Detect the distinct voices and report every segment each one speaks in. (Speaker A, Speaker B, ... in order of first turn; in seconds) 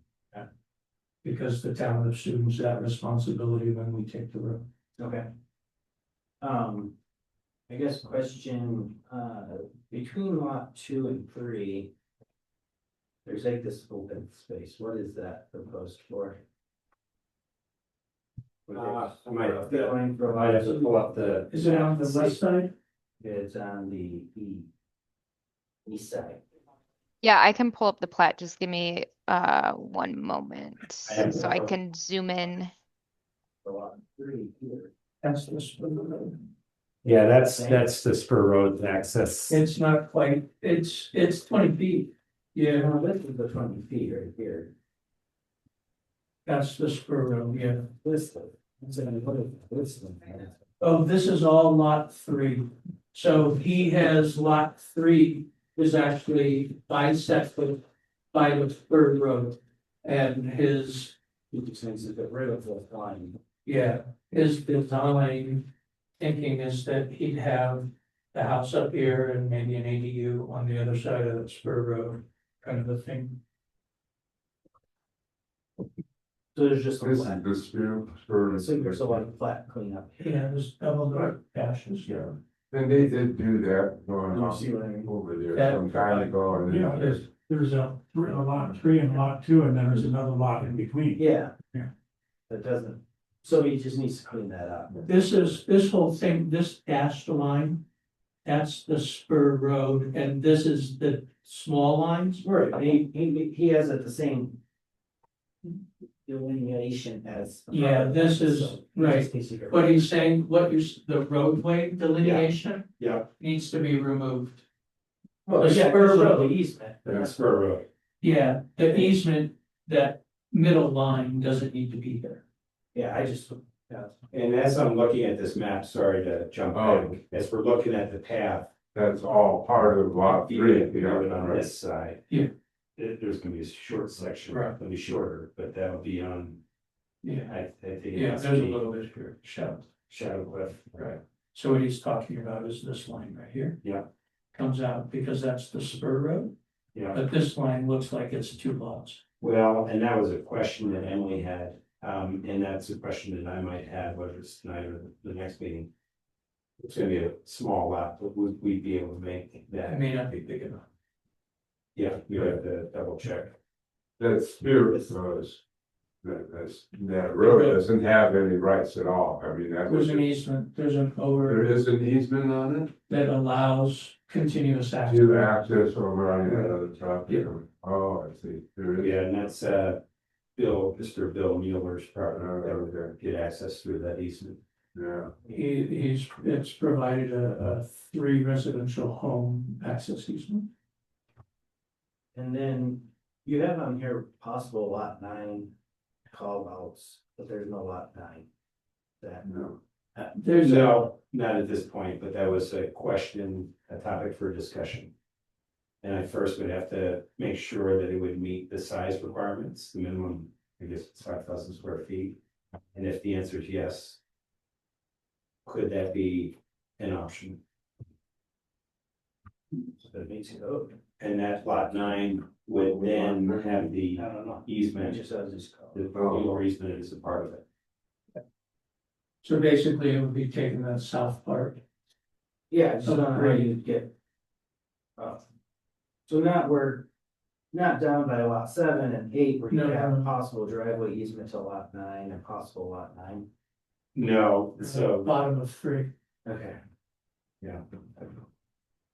Speaker A: 1.2-4.7, 21.5-22.7, 35.2-36.4, 39.5-43.0, 46.5-47.9, 50.8-57.8, 58.3-61.1, 63.6-73.4, 80.2-82.1, 85.5-86.4, 86.9-87.2, 95.0-97.8, 98.5-102.5, 107.7-114.7, 115.6-116.5, 118.2-122.4, 134.5-134.8, 137.2-137.5, 138.1-139.9, 141.0-143.8, 144.5-146.5, 147.1-149.2, 159.9-160.8, 167.4-167.8, 169.9-171.7, 173.1-175.7, 176.5-176.8, 185.5-190.7, 200.3-201.1, 229.4-231.8, 233.0-233.7, 239.7-240.3, 244.8-246.1
Speaker B: 5.0-5.3, 6.4-7.0, 7.7-11.9, 13.2-16.4, 18.7-22.4, 23.2-24.7, 25.9-26.4, 33.6-34.9, 37.4-37.9, 42.7-44.7, 48.0-50.6, 61.5-63.4, 76.5-77.5, 78.5-80.3, 84.3-85.1, 91.2-91.5, 92.5-95.1, 102.4-104.6, 106.3-110.0, 115.5-117.5, 122.9-124.2, 192.3-195.7, 196.3-198.5, 199.2-199.5, 220.1-221.0, 223.2-223.5, 224.1-226.0, 232.7-234.1, 235.2-235.4, 236.3-237.1, 237.7-243.5, 246.4-246.8
Speaker C: 18.7-21.5, 31.1-31.8, 37.0-39.6, 112.2-113.3, 117.1-117.9, 124.3-128.7, 130.2-132.2, 133.0-136.6, 137.4-138.8, 140.1-141.2, 143.8-144.1, 146.9-147.2, 149.4-155.9, 156.8-160.2, 162.0-163.6, 179.0-180.0, 180.6-184.6, 200.6-205.1, 206.0-212.4, 212.9-214.2, 215.7-217.6, 221.2-225.2, 225.9-227.6, 244.2-245.3
Speaker D: 27.2-32.7
Speaker E: 77.0-79.3, 82.1-87.3, 126.7-127.2, 128.9-131.7, 164.2-165.6, 166.2-170.2, 171.4-172.9, 175.1-179.2, 182.3-183.1, 184.9-185.3, 199.4-199.8, 226.1-226.5
Speaker F: 86.7-91.2